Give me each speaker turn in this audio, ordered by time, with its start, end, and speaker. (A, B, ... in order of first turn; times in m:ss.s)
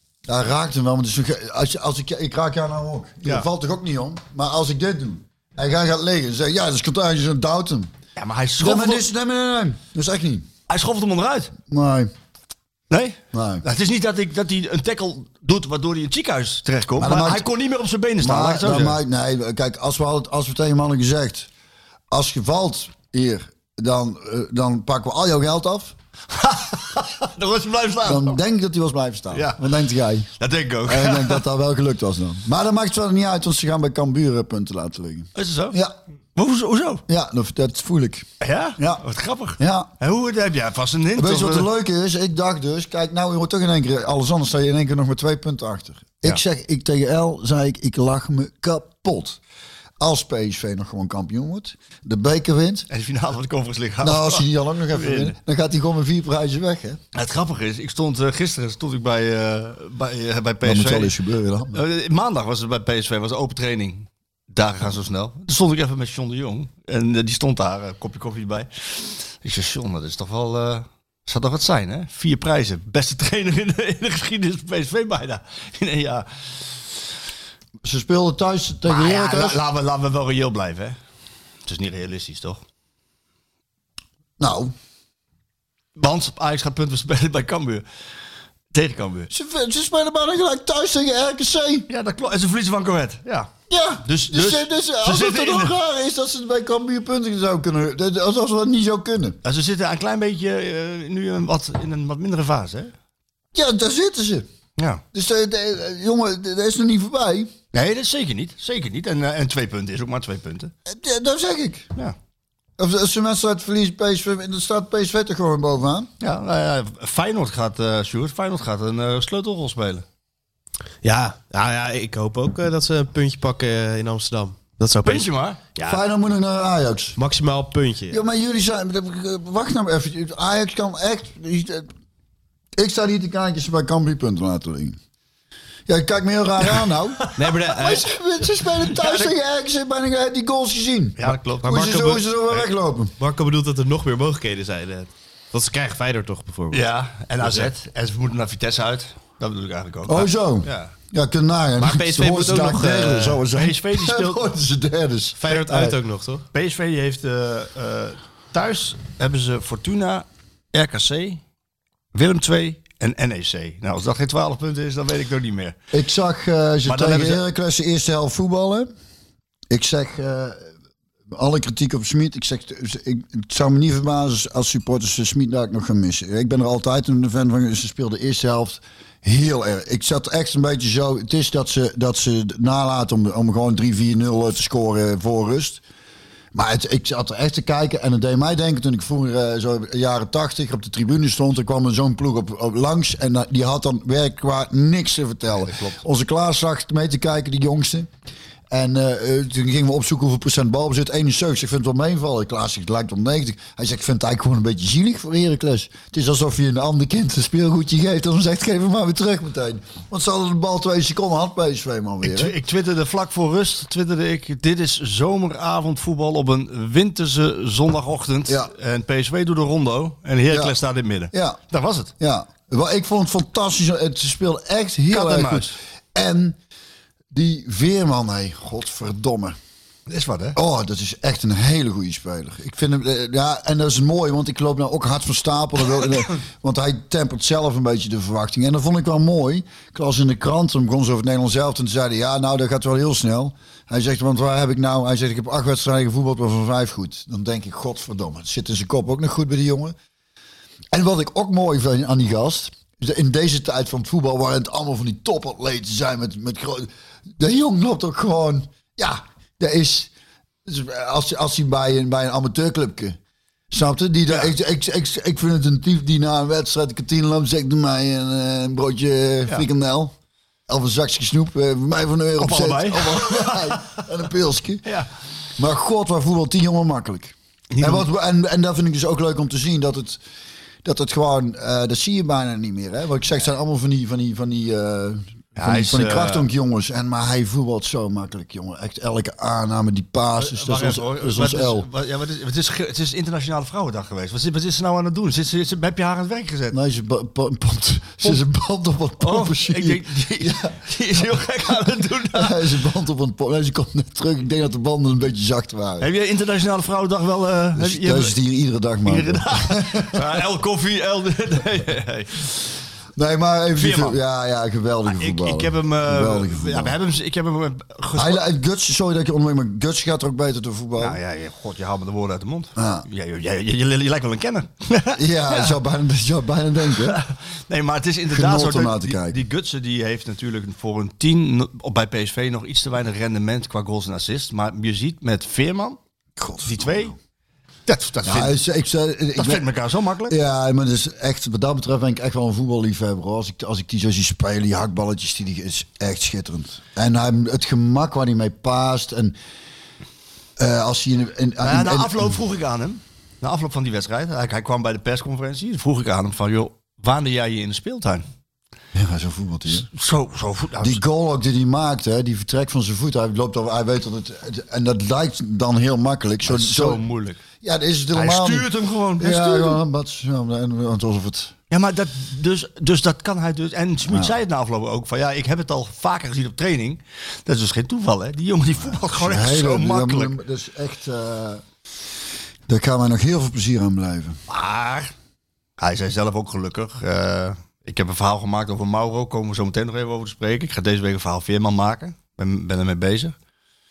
0:00.3-0:07.9 A
0:08.2-0:09.0 B
0:08.6-0:10.5 A
0:10.7-0:11.5 B
0:11.7-0:12.1 A
0:12.9-0:19.0 B
0:13.3-0:13.6 A
0:17.0-0:17.5 A
0:18.2-0:21.5 A
0:22.1-0:26.0 A
0:26.3-0:28.4 B
0:28.0-0:30.3 A
0:29.3-0:29.7 B
0:30.4-0:31.4 B
0:30.8-0:36.0 A
0:35.4-0:35.8 B
0:36.4-0:37.0 B
0:37.1-0:39.0 A
0:38.4-0:41.7 B
0:39.6-0:39.9 A
0:41.2-0:49.4 A
0:50.0-0:52.9 A
0:52.9-0:55.4 B
0:54.0-0:57.0 A
0:57.1-1:01.2 B
1:00.6-1:01.8 A
1:01.7-1:16.7 B
1:17.8-1:19.6 A
1:18.9-1:21.0 B
1:21.7-1:22.6 B
1:24.4-1:24.7 A
1:26.0-1:27.8 B
1:28.7-1:29.3 B
1:29.3-1:31.9 A
1:31.9-1:33.5 B
1:33.7-1:39.4 A
1:34.0-1:35.8 B
1:39.4-1:42.9 B
1:43.5-1:44.5 A
1:44.8-1:45.0 B
1:45.1-1:47.5 A
1:47.7-1:50.7 B
1:50.9-1:51.9 A
1:52.8-1:56.1 A
1:56.2-2:00.0 B
2:01.0-2:05.3 C
2:05.0-2:06.0 B
2:05.8-2:07.2 A
2:07.2-2:08.2 C
2:08.1-2:11.9 A
2:12.8-2:15.0 A
2:15.9-2:23.1 A
2:17.4-2:18.1 C
2:18.9-2:19.3 B
2:21.2-2:22.7 B
2:21.3-2:22.2 C
2:23.2-2:26.9 C
2:26.7-2:30.9 B
2:27.4-2:27.7 C
2:30.1-2:35.8 A
2:31.8-2:33.4 C
2:33.5-2:34.5 B
2:35.4-2:36.4 C
2:35.4-2:36.0 B
2:36.5-2:41.4 B
2:42.1-2:45.8 B
2:45.9-2:48.9 A
2:46.8-2:47.4 B
2:49.7-2:50.7 A
2:51.3-3:05.8 A
3:06.5-3:18.1 A
3:15.6-3:16.0 B
3:18.7-3:32.6 A
3:32.2-3:42.1 B
3:40.5-3:40.8 A
3:41.3-3:41.6 A
3:42.2-3:46.6 A
3:45.1-3:45.7 B
3:47.3-3:49.6 A
3:50.1-3:50.6 B
3:50.6-4:10.0 A
4:10.9-4:20.1 A
4:20.6-4:23.2 A
4:23.7-4:30.1 A
4:30.7-4:34.9 A
4:32.4-4:34.0 B
4:35.6-4:40.2 A
4:37.7-4:38.1 B
4:40.8-4:51.9 A
4:45.6-4:46.5 B
4:50.4-4:56.8 B
4:56.7-5:01.2 A
4:59.2-5:02.6 B
5:02.3-5:06.1 A
5:06.0-5:08.4 B
5:07.8-5:10.4 A
5:09.0-5:12.5 B
5:13.2-5:17.0 A
5:13.8-5:14.2 B
5:15.1-5:18.4 B
5:18.2-5:21.2 A
5:21.0-5:25.8 B
5:22.8-5:23.0 A
5:25.2-5:27.2 A
5:27.0-5:36.0 B
5:28.3-5:29.4 A
5:36.4-5:37.2 A
5:36.6-5:37.1 B
5:37.9-5:38.6 B
5:38.2-5:39.7 A
5:39.4-5:40.4 B
5:40.3-5:49.4 A
5:50.6-5:52.4 A
5:51.6-5:58.2 B
5:58.9-5:59.9 A
5:59.7-6:01.0 B
6:00.8-6:07.0 A
6:06.4-6:07.4 B
6:07.6-6:11.5 A
6:08.1-6:09.8 B
6:11.7-6:20.4 B
6:14.1-6:14.3 A
6:18.8-6:21.6 A
6:22.7-6:24.4 A
6:24.5-6:25.1 B
6:25.8-6:33.4 B